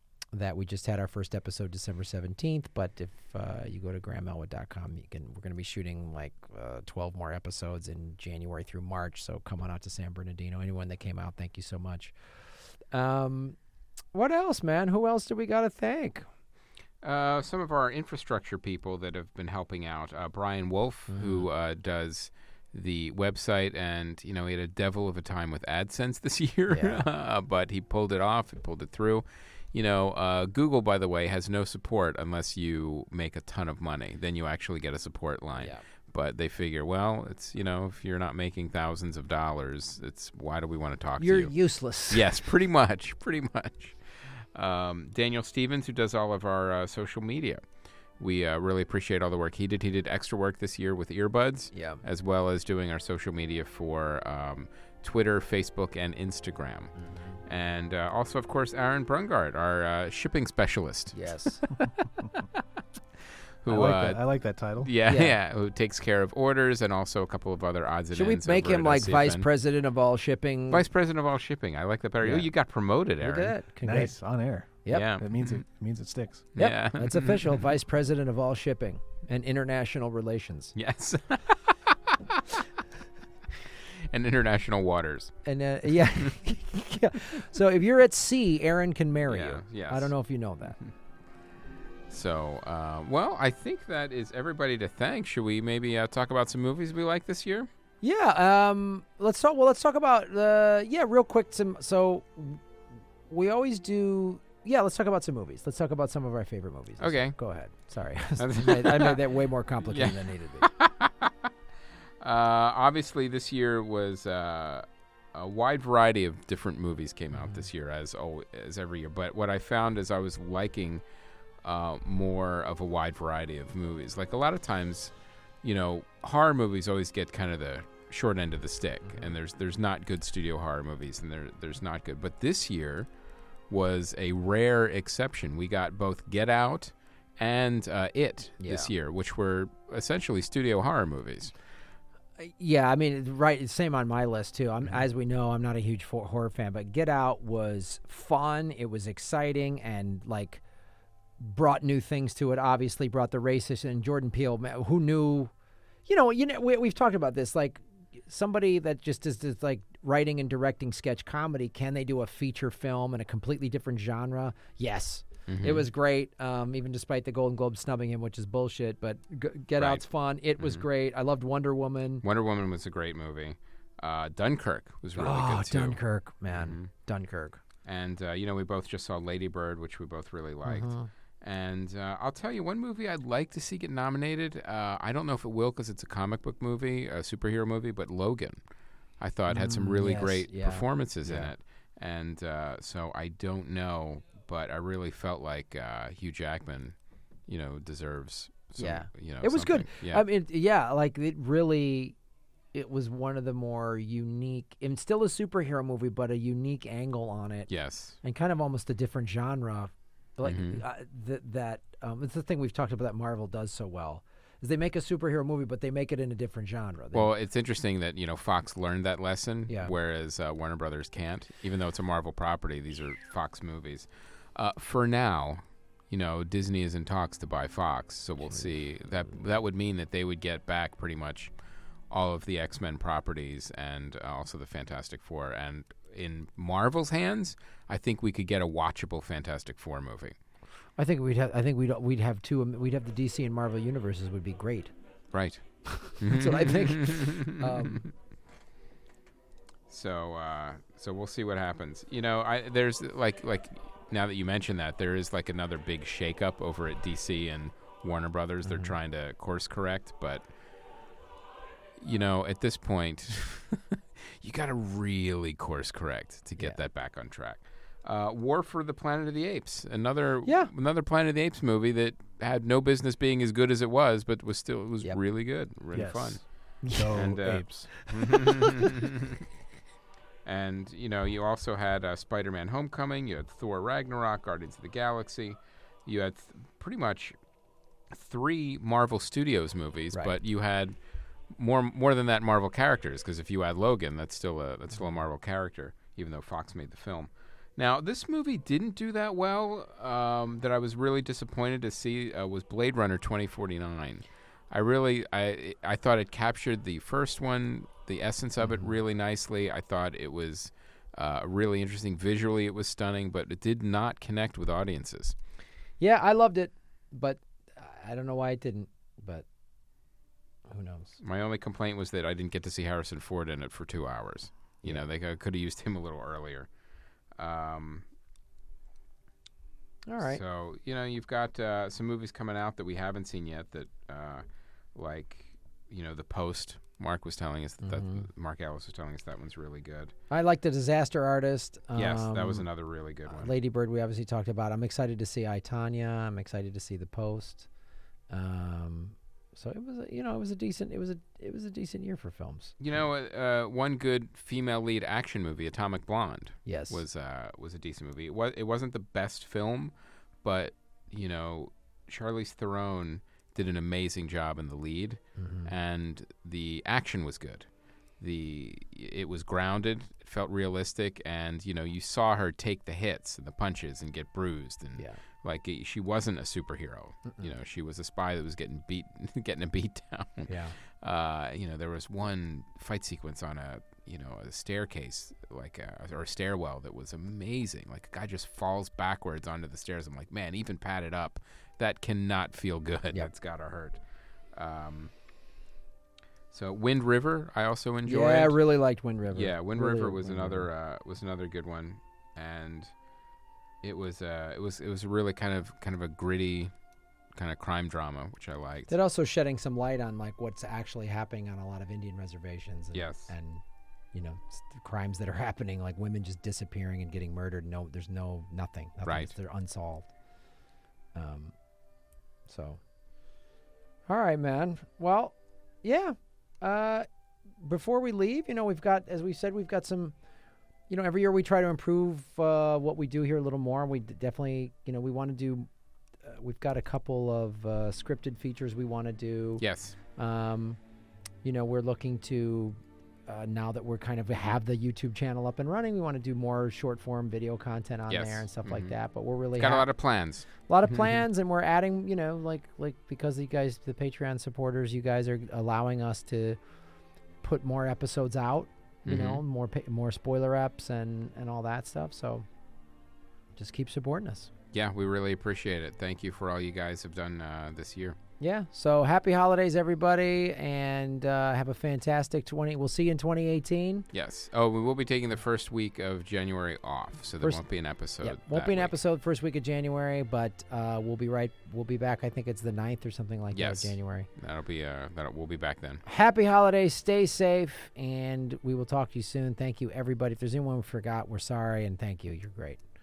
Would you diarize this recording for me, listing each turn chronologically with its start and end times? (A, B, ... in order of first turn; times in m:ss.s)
0:00.3-0:12.2 A
0:12.9-0:13.6 A
0:14.1-0:16.3 A
0:17.0-0:41.5 B
0:21.1-0:21.4 A
0:26.7-0:27.0 A
0:41.2-0:42.3 A
0:42.1-0:47.6 B
0:48.2-0:56.9 B
0:51.7-0:52.0 A
0:57.0-0:57.4 A
0:57.5-1:01.7 B
1:01.1-1:01.6 A
1:03.6-1:04.2 B
1:03.7-1:04.9 C
1:04.8-1:09.5 B
1:05.0-1:05.3 A
1:08.1-1:10.8 A
1:10.7-1:13.5 B
1:12.2-1:12.5 A
1:13.2-1:14.1 A
1:13.8-1:16.5 C
1:14.9-1:15.6 B
1:16.6-1:17.6 B
1:16.6-1:20.8 A
1:20.8-1:22.6 B
1:23.6-1:25.4 B
1:25.4-1:30.8 A
1:29.3-1:30.1 B
1:32.1-1:37.7 B
1:38.0-1:42.6 A
1:43.3-1:50.7 A
1:47.0-1:47.4 B
1:48.4-1:49.2 B
1:49.9-1:51.5 B
1:52.2-2:01.0 B
1:57.4-1:57.6 A
2:01.6-2:05.1 B
2:05.6-2:13.1 B
2:09.1-2:09.3 A
2:13.7-2:21.5 B
2:18.6-2:18.9 A
2:22.4-2:30.6 A
2:31.4-2:35.5 A
2:36.1-2:52.2 A
2:45.5-2:45.9 B
2:52.2-2:56.0 B
2:55.2-2:57.6 A
2:56.5-2:56.9 B
2:57.8-3:08.6 B
3:00.6-3:01.1 A
3:09.2-3:17.0 B
3:09.5-3:11.5 A
3:17.5-3:20.2 B
3:18.8-3:22.2 A
3:22.7-3:27.7 A
3:27.7-3:28.2 B
3:28.2-3:37.3 A
3:30.4-3:30.8 B
3:37.1-3:51.5 B
3:52.1-4:00.4 B
4:01.0-4:04.9 A
4:05.3-4:05.6 B
4:05.9-4:08.1 A
4:06.2-4:08.0 B
4:09.9-4:20.5 B
4:18.6-4:18.9 A
4:22.0-4:36.4 B
4:30.4-4:30.7 A
4:35.9-4:37.9 C
4:36.8-4:37.2 A
4:37.1-4:39.4 B
4:38.0-4:38.7 A
4:40.4-4:47.4 B
4:48.1-4:51.0 B
4:51.5-5:15.4 B
5:08.6-5:08.9 A
5:16.0-5:19.4 A
5:20.7-5:21.2 A
5:21.2-5:26.7 B
5:27.4-5:28.0 B
5:30.1-5:30.4 A
5:30.2-5:34.4 B
5:35.0-5:40.1 B
5:37.8-5:38.3 A
5:40.3-5:42.7 A
5:42.0-5:43.5 B
5:43.3-5:47.7 A
5:48.3-5:52.8 A
5:52.8-5:59.9 B
5:56.7-5:57.0 A
6:00.4-6:07.7 B
6:05.4-6:05.7 A
6:08.2-6:34.0 B
6:20.5-6:20.8 A
6:34.6-6:35.1 B
6:36.5-6:38.6 B
6:38.1-6:40.7 A
6:39.3-6:42.9 B
6:43.8-6:46.7 B
6:47.4-6:48.9 B
6:48.9-7:00.1 A
6:52.9-6:53.3 B
6:59.1-6:59.3 B
7:01.2-7:01.6 A
7:02.5-7:02.8 A
7:04.1-7:07.1 A
7:07.6-7:10.2 A
7:10.9-7:15.7 A
7:16.2-7:19.6 A
7:19.6-7:20.0 B
7:20.2-7:20.8 A
7:21.4-7:29.9 A
7:28.1-7:28.9 B
7:29.6-7:31.2 B
7:30.7-7:36.6 A
7:37.4-7:42.5 A
7:39.1-7:39.4 B
7:43.6-7:44.5 A
7:44.7-7:48.2 B
7:48.4-7:54.1 A
7:54.1-7:58.9 B
7:58.2-8:04.3 A
8:03.5-8:06.0 B
8:06.1-8:12.8 A